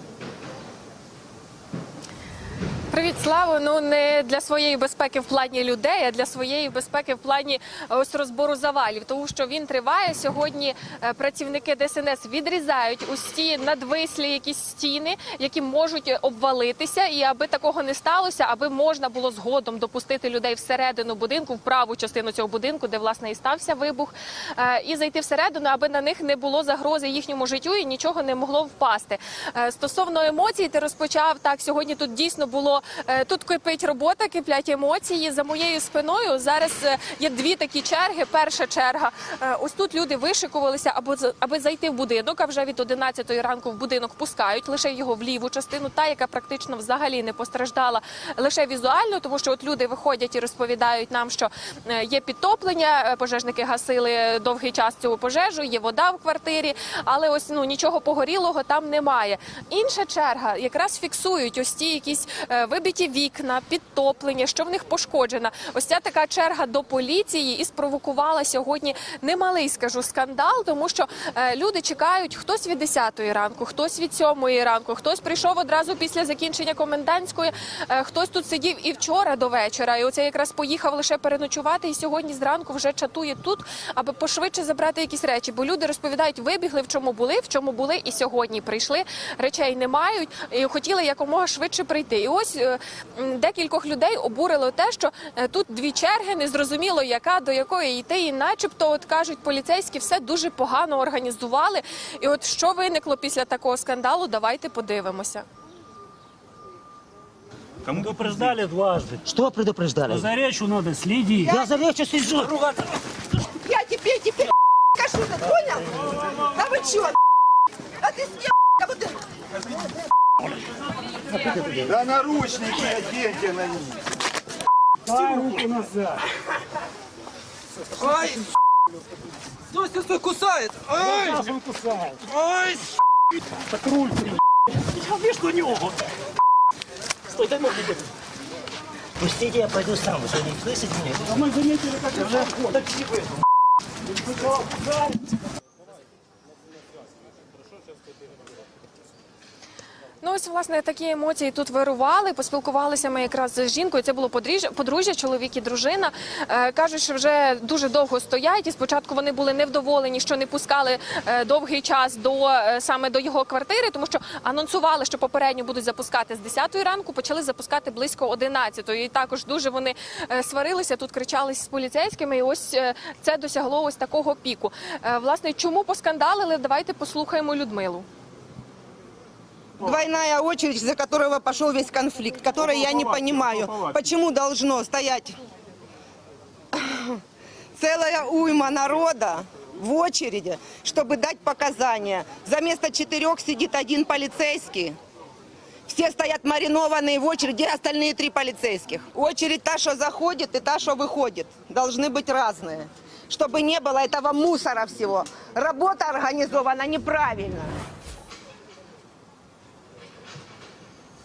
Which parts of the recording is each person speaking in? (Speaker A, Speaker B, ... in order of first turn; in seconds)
Speaker A: 2.9-105.5, 150.2-178.1
Speaker B: 107.8-109.2, 110.1-111.5, 125.1-126.0, 133.9-134.2, 135.2-135.8, 137.4-137.9, 141.8-142.4
Speaker C: 109.2-110.3, 111.5-112.7, 139.2-141.6
Speaker D: 113.6-117.2, 118.0-119.1, 128.1-128.4, 129.9-130.9, 179.8-185.4, 186.7-187.2, 187.8-195.0, 195.9-207.7
Speaker E: 122.0-123.9